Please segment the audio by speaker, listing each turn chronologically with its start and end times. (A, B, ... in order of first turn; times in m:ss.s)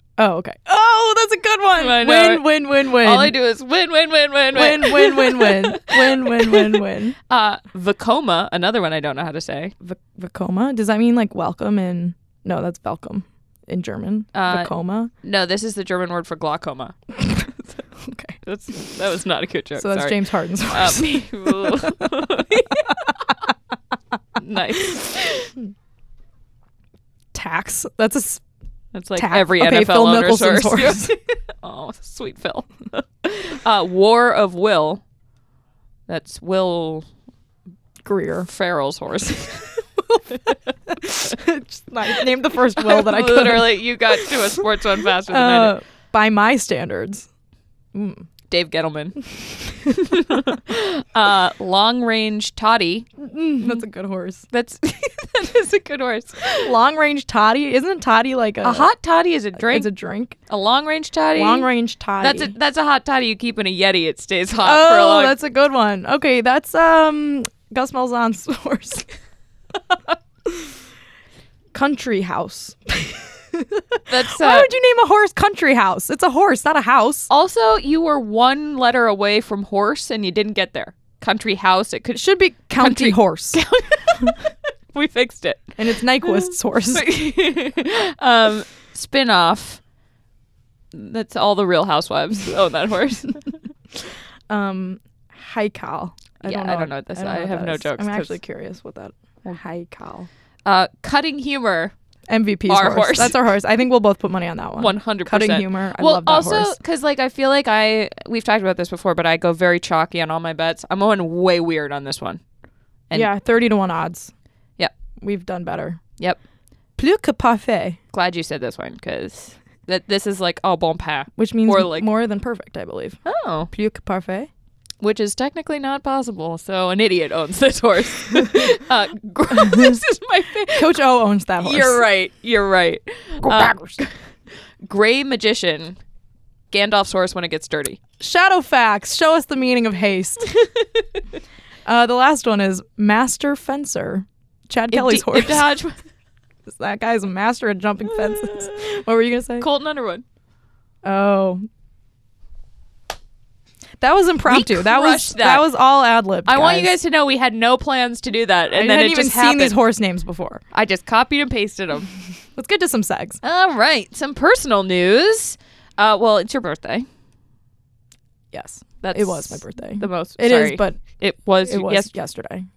0:00.2-0:03.3 A
0:01.8-0:09.7 B
0:04.5-0:07.2 A
0:09.8-0:15.1 A
0:14.3-0:14.7 B
0:15.2-0:16.9 B
0:17.2-0:18.4 A
0:18.4-0:23.0 B
0:19.8-0:22.2 A
0:24.4-0:25.5 B
0:27.3-0:28.4 A
0:28.9-0:35.0 B
0:29.2-0:31.2 A
0:36.1-0:37.1 B
0:38.0-0:38.5 A
0:38.5-0:39.7 B
0:40.9-0:44.3 A
0:42.8-0:45.8 B
0:45.3-0:47.3 A
0:47.9-0:48.2 A
0:48.5-0:49.2 B
0:49.7-0:50.2 A
0:49.9-0:53.1 B
0:53.2-0:54.4 A
0:54.5-0:56.7 B
0:56.6-0:58.9 A
0:58.6-0:59.9 B
0:59.6-1:00.4 A
1:00.5-1:01.7 B
1:01.3-1:02.5 A
1:02.2-1:05.3 B
1:04.6-1:09.1 A
1:11.7-1:17.3 A
1:14.1-1:14.7 B
1:17.3-1:24.4 B
1:22.1-1:23.6 A
1:24.9-1:29.8 B
1:25.8-1:27.0 A
1:30.9-1:33.5 B
1:34.5-1:40.3 A
1:36.4-1:38.4 B
1:40.6-1:41.9 B
1:42.3-1:46.8 A
1:42.7-1:43.4 B
1:44.8-1:52.4 B
1:53.1-1:54.3 A
1:55.2-1:56.0 A
1:57.0-1:58.0 A
1:58.1-2:02.1 B
2:01.4-2:03.2 A
2:03.2-2:03.7 B
2:03.7-2:04.5 A
2:05.0-2:11.0 B
2:09.5-2:10.0 A
2:10.7-2:12.0 A
2:11.6-2:14.1 B
2:13.4-2:14.0 A
2:14.8-2:16.0 B
2:16.7-2:18.0 B
2:18.2-2:20.4 A
2:21.9-2:25.7 A
2:24.9-2:26.0 B
2:26.6-2:29.7 A
2:28.1-2:29.0 B
2:29.6-2:30.2 B
2:31.0-2:31.6 A
2:34.0-2:37.0 A
2:34.5-2:35.6 B
2:36.4-2:39.8 B
2:38.7-2:40.6 A
2:40.7-2:42.1 B
2:42.6-2:43.4 A
2:43.4-2:47.0 B
2:48.5-2:51.0 A
2:49.0-2:52.1 B
2:51.6-2:52.7 A